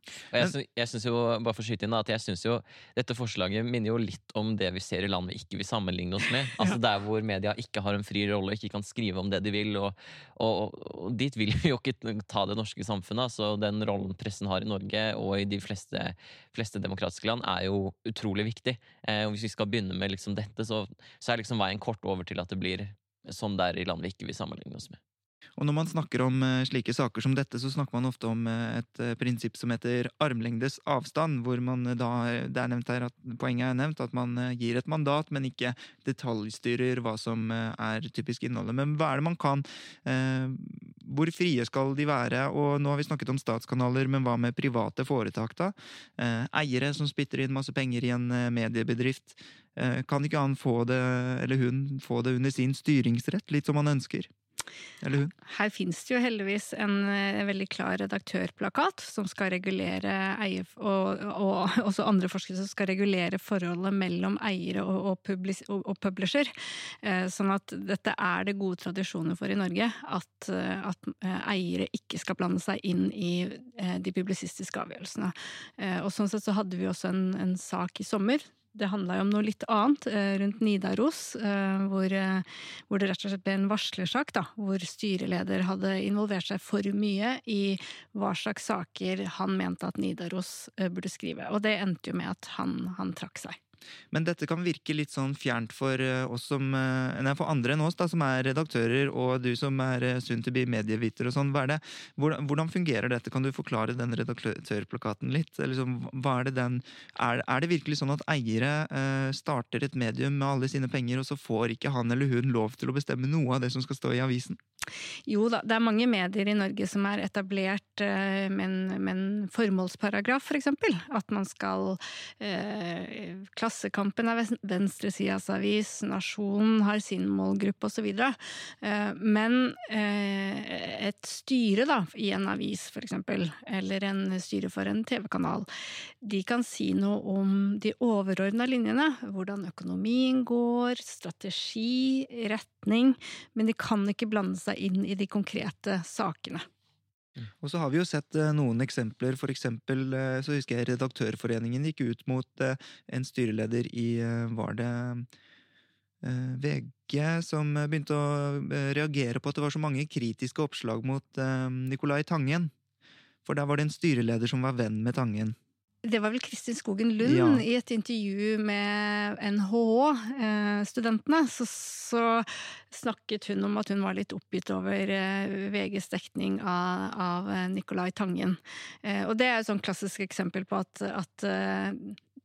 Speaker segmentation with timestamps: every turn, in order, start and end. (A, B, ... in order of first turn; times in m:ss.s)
0:00.3-0:25.0 A
0:25.6-0:54.3 B
0:55.0-0:55.3 B
0:55.5-1:06.5 C
1:07.0-1:33.6 C
1:34.1-1:54.6 B
1:55.3-2:15.7 C
2:16.2-2:26.7 C
2:27.6-2:35.3 B
2:36.2-2:42.7 B
2:43.4-2:45.6 B
2:46.0-3:02.2 C
2:47.2-2:47.6 B